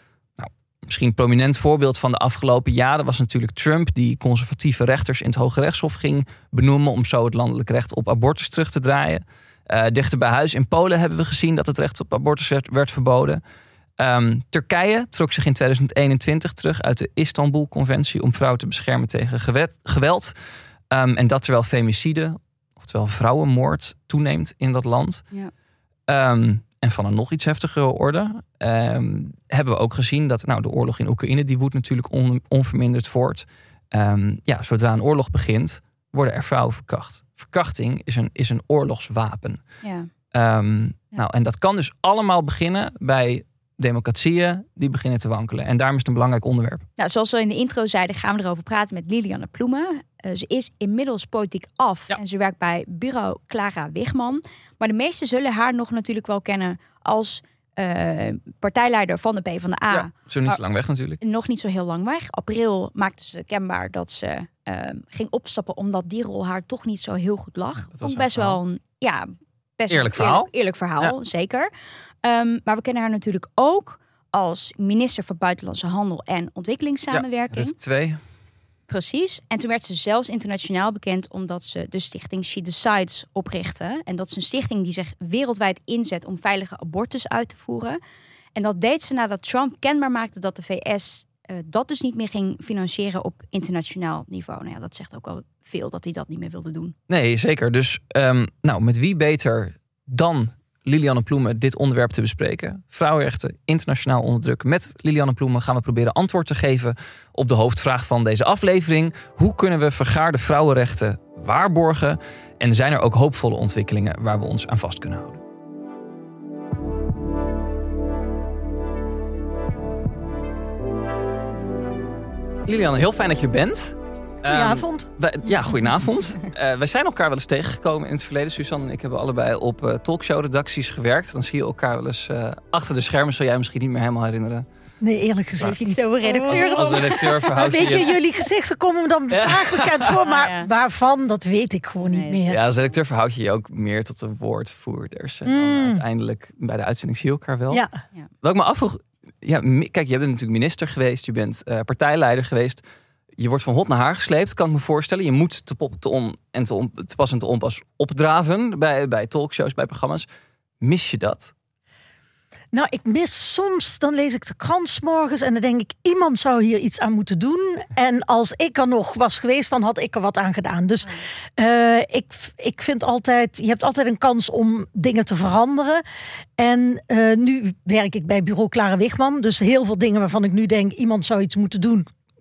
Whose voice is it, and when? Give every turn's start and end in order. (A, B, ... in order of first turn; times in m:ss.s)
0:00.4-0:13.4 A
0:14.0-0:20.4 A
0:20.9-0:25.2 A
0:26.1-0:39.6 A
0:39.8-0:40.1 B
0:40.3-0:46.8 A
0:47.0-1:00.6 B
0:59.9-1:01.2 A
1:01.2-1:11.7 B
1:07.9-1:08.6 A
1:09.9-1:11.2 A
1:12.2-1:17.7 B
1:17.1-1:18.2 A
1:18.9-1:28.0 B
1:28.6-1:37.0 B
1:37.1-1:55.4 A
2:02.7-2:14.7 A
2:04.5-2:05.1 C
2:15.0-2:22.6 C
2:15.8-2:17.9 B
2:16.4-2:18.2 A
2:19.3-2:20.2 A
2:20.2-2:20.7 B
2:22.0-2:22.4 B
2:22.5-2:27.8 A
2:25.5-2:26.0 C
2:28.4-2:32.8 A
2:33.4-2:40.3 A
2:40.8-2:41.5 A
2:42.7-2:56.0 C
2:56.6-3:02.1 C